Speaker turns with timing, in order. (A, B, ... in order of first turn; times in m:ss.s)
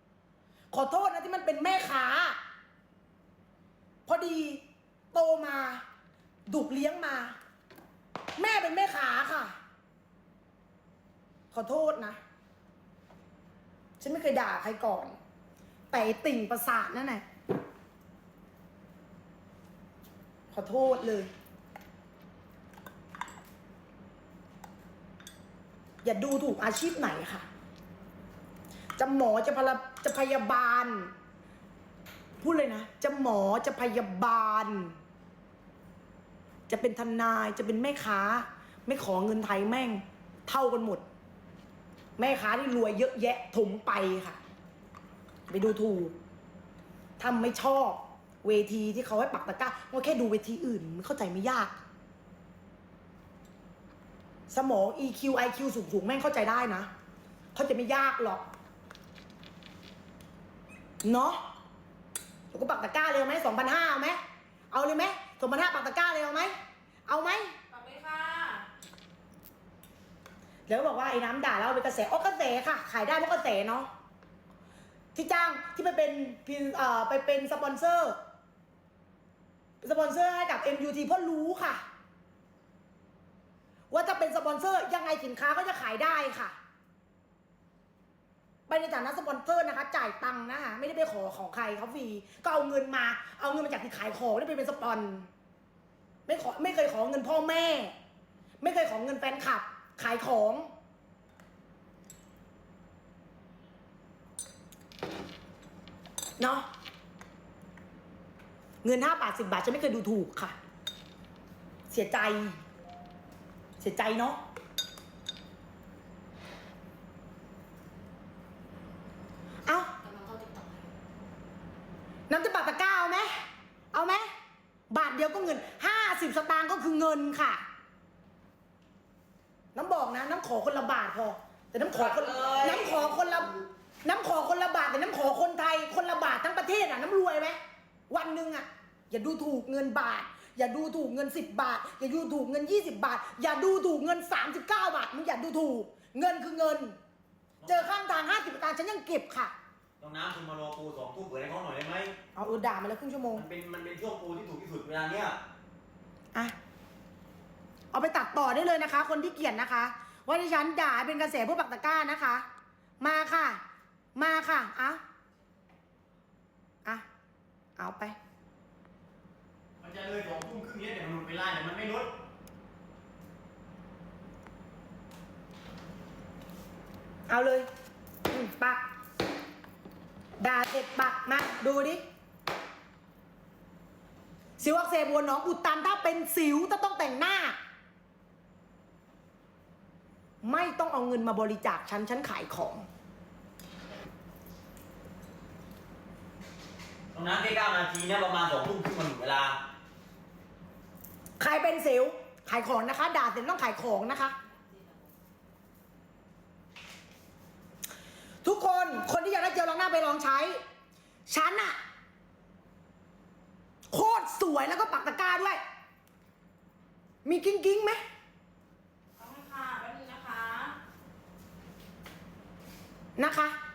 0:00.7-0:02.4 A
0:04.1-0:05.8 A
0:06.5-0:07.4 A
0:08.4-0:09.5 A
0:11.5-0:12.2 A
0:14.0-0:15.2 A
0:15.9-0:17.2 A
0:20.5-0:21.3 A
0:26.0-0:27.4 A
0:29.0-0:31.1 A
0:32.4-0:35.0 A
0:36.7-0:41.0 A
0:42.2-0:44.4 A
0:45.5-0:46.2 A
0:47.2-0:51.8 A
0:54.5-0:56.9 A
0:57.5-0:58.4 A
1:01.0-1:01.4 A
1:02.5-1:04.2 A
1:04.7-1:06.5 A
1:07.1-1:07.6 A
1:07.7-1:08.7 B
1:10.7-1:13.9 A
1:15.2-1:18.2 A
1:19.8-1:21.8 A
1:23.9-1:26.6 A
1:28.7-1:35.3 A
1:36.3-1:37.9 A
1:38.6-1:40.7 A
1:46.4-1:46.7 A
1:48.8-1:50.6 A
1:51.9-1:52.6 A
1:53.8-1:54.4 A
1:59.6-1:59.9 A
2:00.0-2:00.9 B
2:02.3-2:03.4 A
2:03.9-2:04.3 A
2:04.9-2:07.6 A
2:09.8-2:17.6 A
2:12.1-2:13.0 C
2:18.1-2:27.0 A
2:27.6-2:27.9 C
2:27.7-2:29.5 A
2:30.0-2:32.2 C
2:32.4-2:33.4 A
2:33.4-2:35.4 C
2:37.9-2:42.5 A
2:43.0-2:43.6 A
2:44.2-2:45.0 A
2:47.8-2:48.2 A
2:49.8-2:52.1 C
2:57.3-2:57.7 A
2:58.3-2:58.8 A
3:00.4-3:02.0 A
3:04.6-3:07.6 A
3:10.4-3:12.9 A
3:17.1-3:19.6 C
3:21.4-3:24.4 A
3:24.7-3:25.0 B
3:28.4-3:30.6 A
3:31.3-3:31.8 A
3:33.9-3:35.6 A
3:37.2-3:38.0 A
3:39.2-3:40.8 B
3:43.2-3:43.6 A